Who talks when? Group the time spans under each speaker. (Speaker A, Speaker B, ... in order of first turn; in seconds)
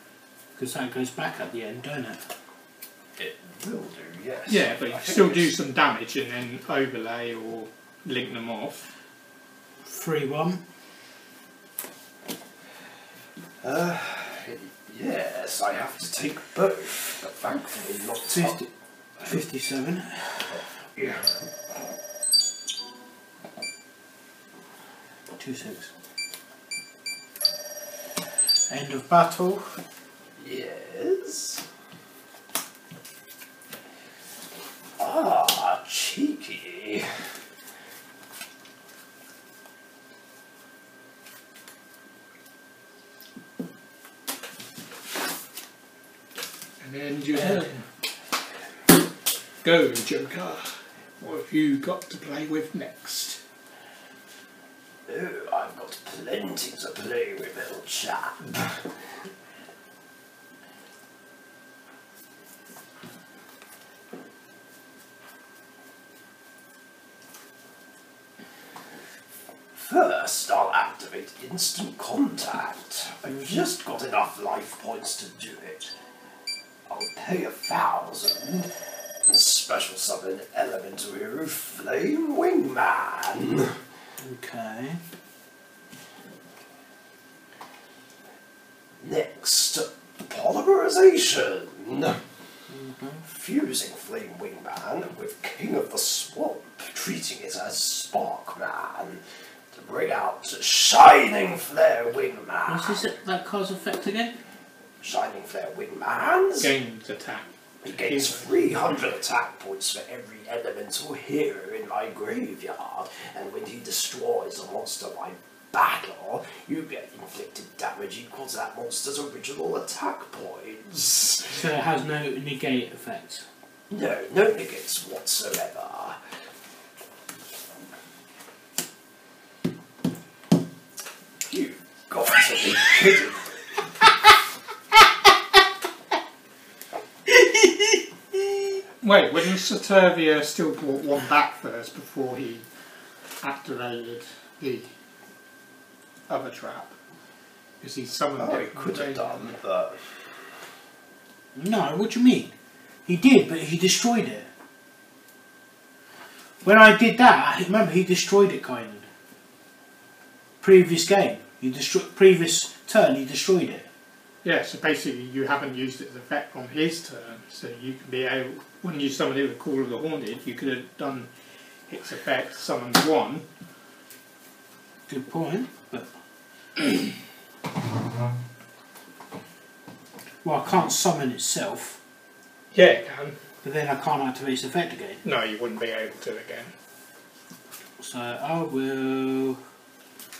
Speaker A: 0.6-2.2, 9.8-10.6, 18.3-18.7, 19.2-20.6, 25.4-25.9, 28.7-29.8, 84.2-85.0, 92.7-93.2, 102.7-104.3, 121.5-123.5, 137.3-138.0, 151.6-152.5, 153.1-154.5, 156.6-159.1, 160.6-163.9, 175.1-176.1, 180.4-182.0, 183.6-185.2, 188.0-189.6
Speaker B: 3.2-5.5, 13.6-18.6, 20.8-21.4, 30.4-31.6, 35.0-37.1, 55.1-59.0, 69.7-75.9, 76.9-78.7, 79.2-83.8, 89.0-92.2, 93.3-103.0, 105.0-106.7, 107.8-121.6, 123.9-126.2, 131.4-133.5, 148.4-150.3
Speaker C: 4.5-8.9, 46.8-47.8, 49.6-53.4, 106.6-109.0, 139.0-142.7, 143.4-144.9, 146.3-146.9, 147.8-149.4, 164.4-171.3, 171.9-173.4, 182.7-183.4, 185.2-186.7